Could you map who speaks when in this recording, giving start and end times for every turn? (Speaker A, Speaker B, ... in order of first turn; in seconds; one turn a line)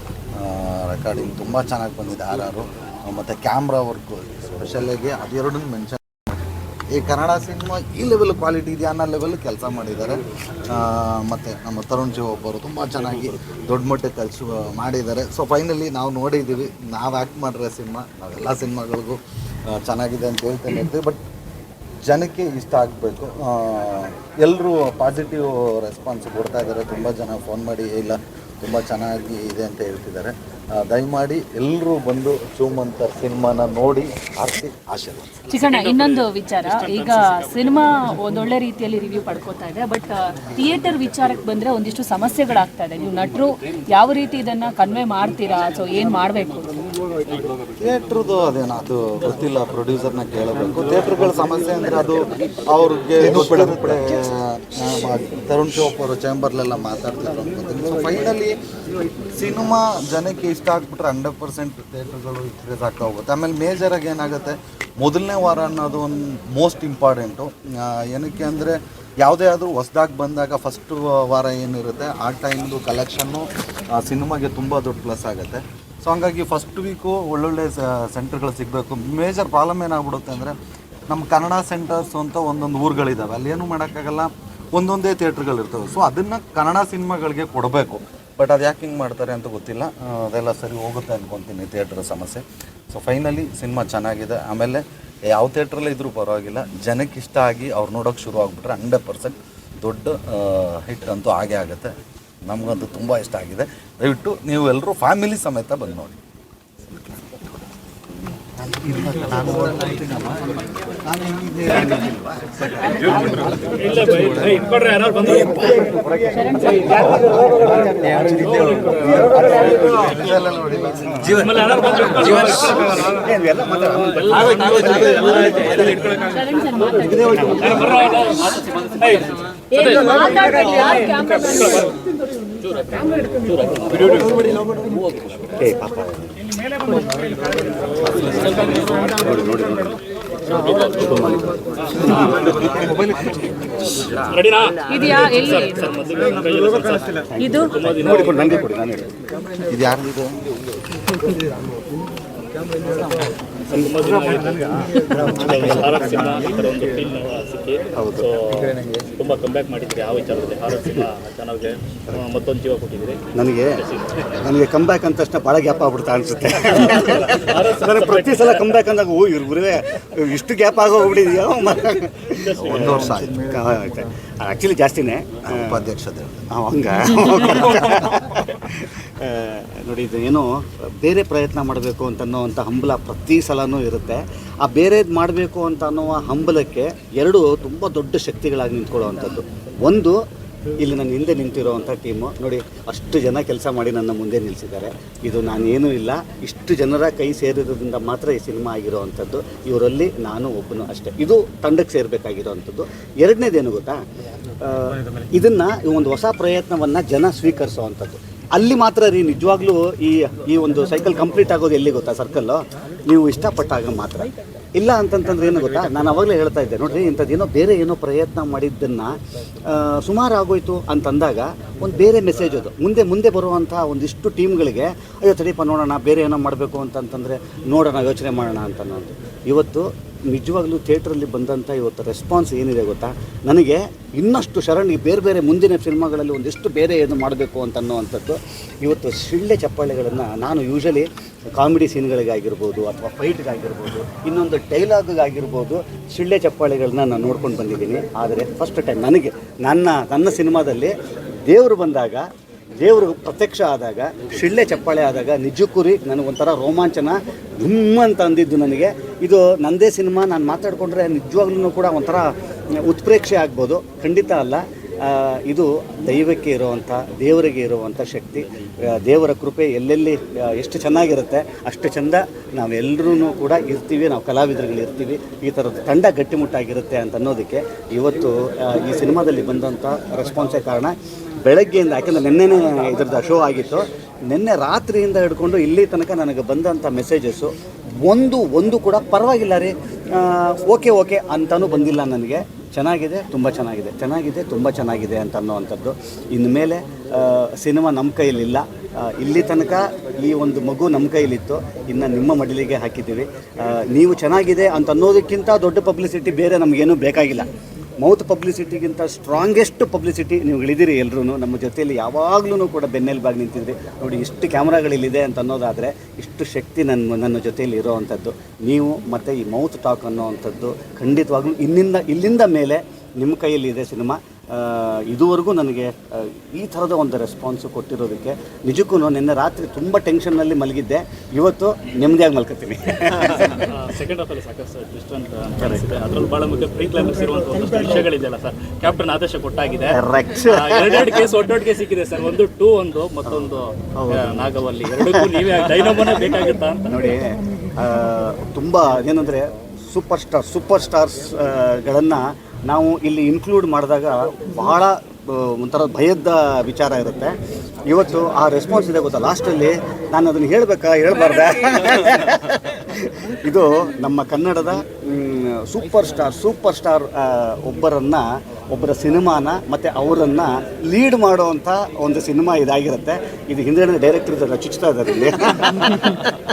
Speaker A: 0.3-6.4
Speaker A: 6.9-21.2
Speaker A: 22.1-35.5
Speaker B: 35.5-37.9
Speaker C: 35.5-46.7
Speaker A: 47.8-58.6
Speaker A: 59.3-80.5
Speaker A: 81.1-101.9
Speaker A: 102.4-106.2
Speaker A: 106.9-107.5
Speaker A: 108.7-114.6
Speaker B: 113.1-116.0
Speaker C: 116.3-117.4
Speaker A: 118.0-121.4
Speaker B: 118.2-119.1
Speaker B: 121.2-123.2
Speaker D: 123.2-125.4
Speaker B: 124.0-132.0
Speaker C: 126.3-128.2
Speaker C: 129.7-131.9
Speaker B: 132.6-134.4
Speaker D: 135.6-136.3
Speaker D: 138.1-140.0
Speaker B: 138.2-139.2
Speaker B: 140.4-142.6
Speaker D: 141.0-141.5
Speaker A: 142.5-143.0
Speaker B: 144.1-148.6
Speaker C: 144.9-145.9
Speaker C: 147.3-147.8
Speaker D: 147.4-149.2
Speaker A: 149.7-150.5
Speaker B: 153.7-164.4
Speaker D: 157.9-158.3
Speaker D: 163.3-163.8
Speaker D: 164.4-175.8
Speaker B: 166.8-168.8
Speaker B: 172.3-173.3
Speaker A: 172.6-173.6
Speaker A: 175.4-176.5
Speaker D: 176.5-190.2
Speaker D: 190.8-204.0
Speaker D: 204.8-212.6
Speaker D: 213.2-215.3
Speaker C: 215.3-215.8
Speaker D: 216.0-219.1
Speaker D: 219.9-250.9
Speaker D: 251.5-252.3
Speaker D: 252.8-264.6
Speaker D: 265.2-280.9
Speaker D: 281.6-287.5
Speaker D: 288.0-289.7
Speaker D: 290.5-303.3
Speaker D: 303.8-333.2
Speaker B: 333.2-346.9
Speaker D: 335.6-335.9
Speaker D: 340.1-340.8
Speaker C: 347.0-348.7
Speaker D: 348.4-349.5
Speaker C: 349.9-350.2
Speaker D: 350.2-352.2
Speaker D: 352.8-354.5
Speaker C: 354.5-355.3
Speaker D: 355.4-357.3
Speaker D: 357.9-361.5
Speaker C: 361.6-362.8
Speaker D: 363.6-375.7
Speaker C: 375.6-376.2